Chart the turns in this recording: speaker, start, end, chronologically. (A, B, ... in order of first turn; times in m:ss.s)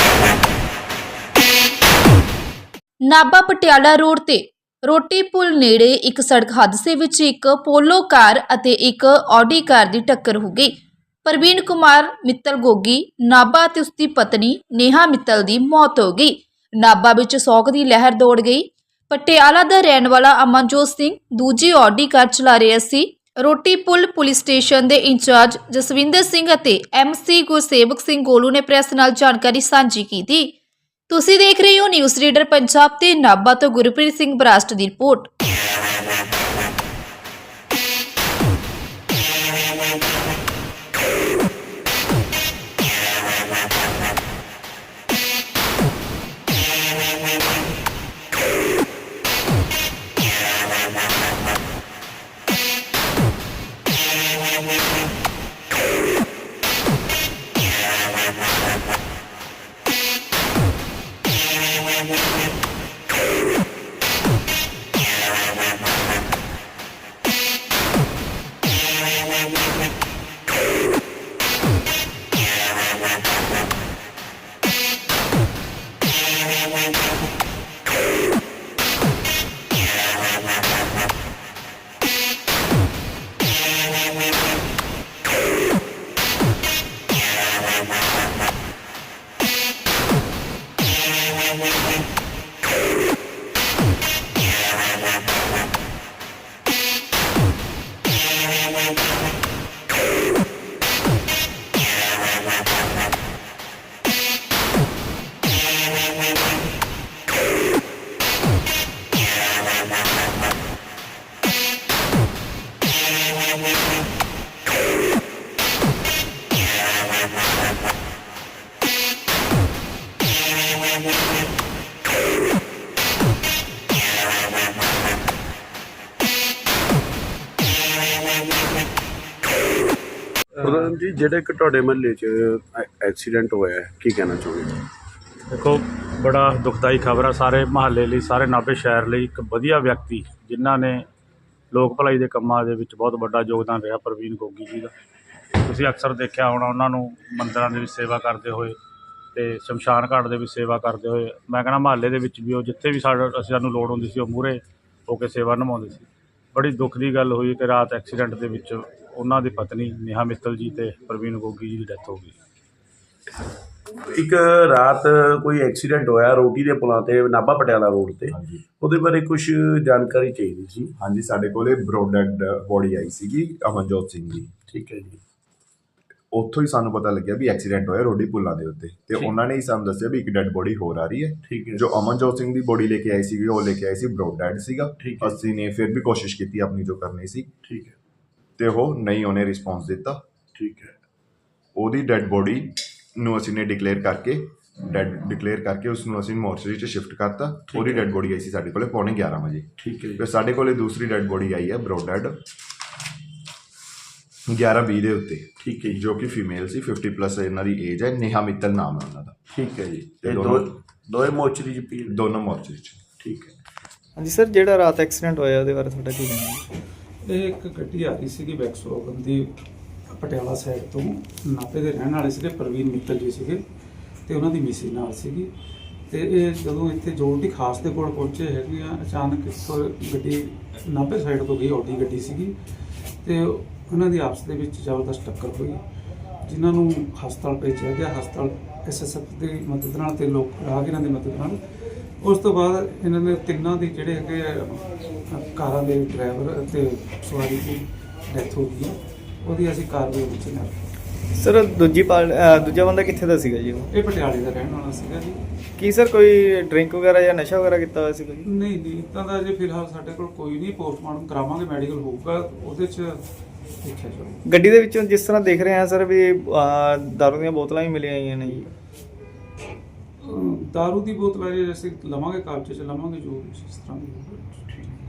0:03.0-0:10.7 A
0:11.2-0:30.5 A
0:31.1-0:35.3 A
2:10.6-2:14.8 B
2:15.5-2:21.1 C
2:21.7-2:24.9 C
2:25.6-2:28.8 C
2:29.4-2:42.4 C
2:44.1-2:50.9 B
2:48.3-2:48.6 D
2:51.0-2:54.5 D
2:54.7-2:55.2 B
2:56.3-3:07.5 D
3:01.5-3:01.8 B
3:05.0-3:05.4 B
3:07.6-3:08.0 B
3:08.6-3:10.2 D
3:10.6-3:10.9 B
3:11.8-3:22.4 D
3:17.7-3:18.1 B
3:19.8-3:20.2 B
3:24.5-3:29.4 D
3:25.6-3:26.0 B
3:29.5-3:32.2 B
3:30.2-3:30.8 D
3:32.1-3:33.0 D
3:33.2-3:33.5 B
3:34.2-3:36.7 E
3:37.2-3:39.5 F
3:40.1-3:43.6 F
3:44.3-3:45.5 F
3:46.1-3:52.6 F
3:53.2-3:55.8 F
3:56.4-4:01.6 F
4:02.2-4:10.8 F
4:11.4-4:13.9 E
4:14.0-4:15.4 F
4:15.8-4:18.5 E
4:18.5-4:23.2 F
4:23.8-4:24.4 F
4:24.5-4:28.7 E
4:30.2-4:34.6 F